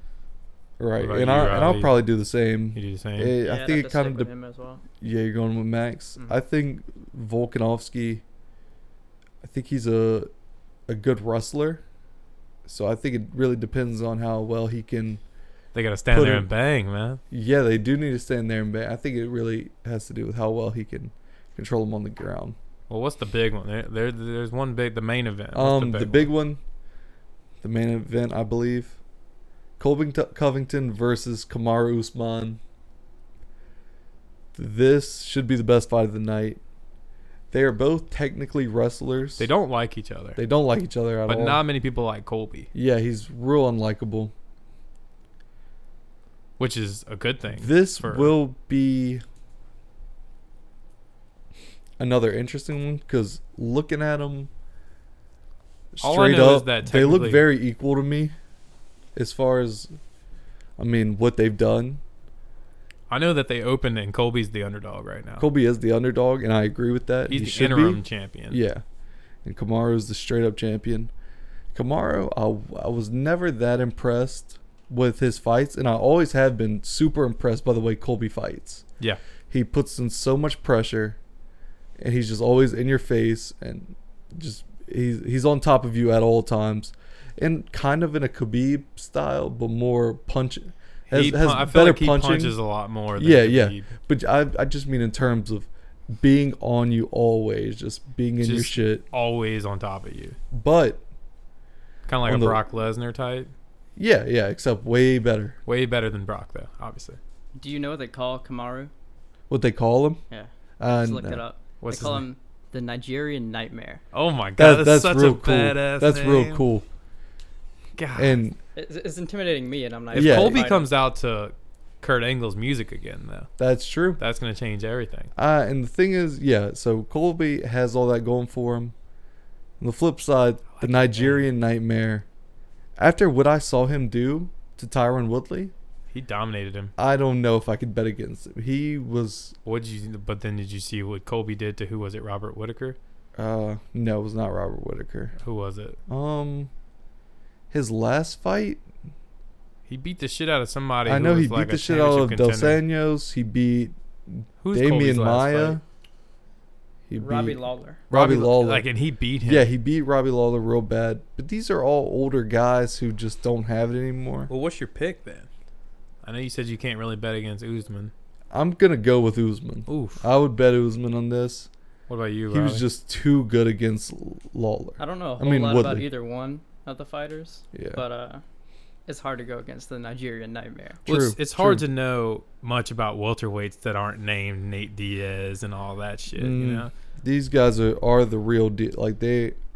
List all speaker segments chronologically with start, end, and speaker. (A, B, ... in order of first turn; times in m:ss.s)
0:00.8-0:04.3 A
0:01.0-0:02.0 B
0:02.7-0:03.3 B
0:03.4-0:04.8 C
0:05.0-0:08.2 A
0:09.4-0:10.3 A
0:10.9-0:11.8 A
0:12.6-0:15.2 A
0:15.7-0:17.2 B
0:16.1-0:16.5 A
0:17.3-0:22.6 A
0:22.9-0:26.3 B
0:25.5-0:26.6 A
0:27.6-0:29.0 A
0:29.8-0:32.6 A
0:34.5-0:36.6 A
0:37.5-0:39.5 A
0:39.4-0:40.4 B
0:40.4-0:41.6 A
0:41.3-0:42.7 B
0:42.7-0:44.3 A
0:46.6-0:48.3 B
0:47.6-0:49.2 A
0:52.0-0:54.5 A
0:55.9-0:58.3 A
0:56.0-0:57.4 B
0:59.1-1:00.0 A
1:00.8-1:02.0 A
1:03.1-1:05.5 B
1:05.4-1:08.8 A
1:07.3-1:08.6 B
1:09.4-1:11.1 A
1:11.7-1:18.8 A
1:19.5-1:21.2 A
1:22.0-1:32.6 A
1:31.1-1:33.9 B
1:33.2-1:39.0 A
1:38.4-1:40.4 B
1:40.5-1:41.0 A
1:42.1-1:43.5 B
1:42.2-1:42.6 A
1:44.0-1:45.6 A
1:45.6-1:47.2 B
1:47.5-1:48.9 C
1:49.5-1:50.2 A
1:50.3-1:54.0 C
1:50.8-1:51.4 A
1:51.8-1:52.2 B
1:54.1-1:56.6 B
1:54.6-1:56.8 A
1:58.0-1:58.4 B
1:58.2-1:58.6 A
1:58.7-2:00.9 C
2:00.1-2:00.6 A
2:00.1-2:03.5 B
2:03.6-2:04.2 A
2:04.2-2:05.3 B
2:05.4-2:08.9 A
2:09.8-2:12.2 A
2:10.7-2:11.4 B
2:13.0-2:15.7 A
2:16.1-2:16.9 B
2:17.0-2:19.6 A
2:19.6-2:23.0 B
2:23.4-2:25.3 A
2:25.4-2:26.0 B
2:26.1-2:26.7 A
2:27.7-2:28.8 A
2:29.9-2:32.8 B
2:31.0-2:35.8 A
2:34.6-2:35.8 B
2:37.1-2:37.6 A
2:37.2-2:38.0 C
2:38.1-2:38.8 A
2:38.1-2:39.6 B
2:39.4-2:44.5 A
2:44.5-2:45.5 B
2:46.2-2:48.1 B
2:48.5-2:51.7 A
2:49.9-2:50.2 B
2:52.1-2:52.8 B
2:52.5-2:56.0 A
2:55.0-2:58.4 C
2:57.7-2:58.0 A
2:59.1-3:01.0 C
3:01.0-3:01.8 A
3:01.0-3:06.9 B
3:06.4-3:09.6 A